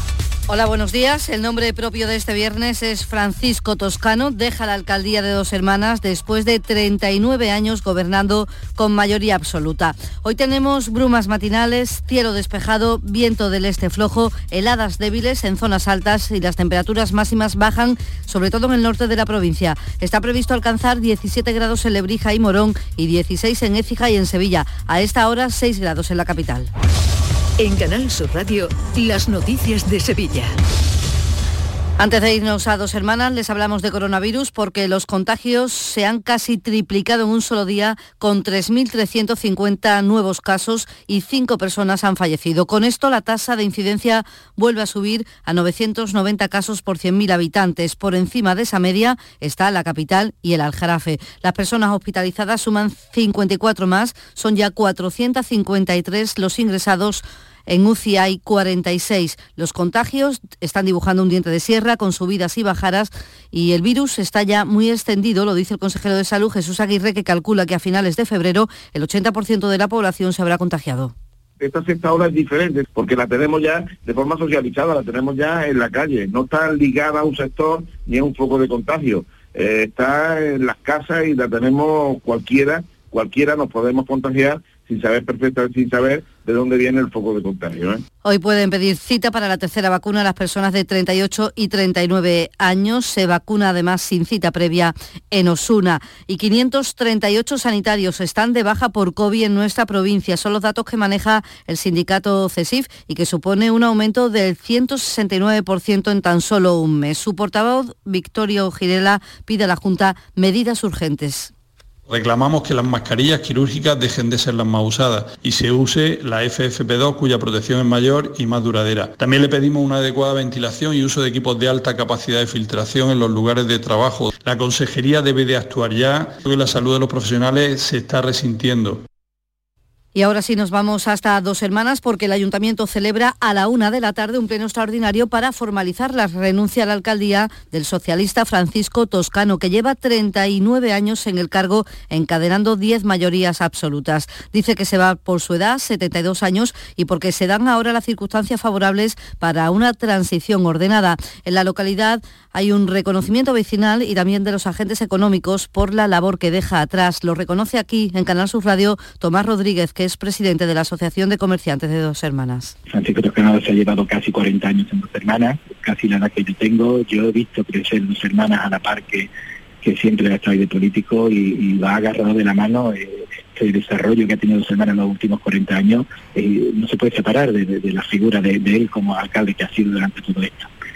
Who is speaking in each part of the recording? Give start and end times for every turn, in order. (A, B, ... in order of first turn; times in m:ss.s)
0:00.5-0:26.7 A
0:27.6-0:30.6 B
0:32.0-1:11.1 A
1:11.6-1:28.0 C
1:28.2-1:51.5 A
1:52.1-2:09.0 D
2:10.2-2:42.7 A
2:42.9-2:49.3 E
2:49.8-3:00.7 E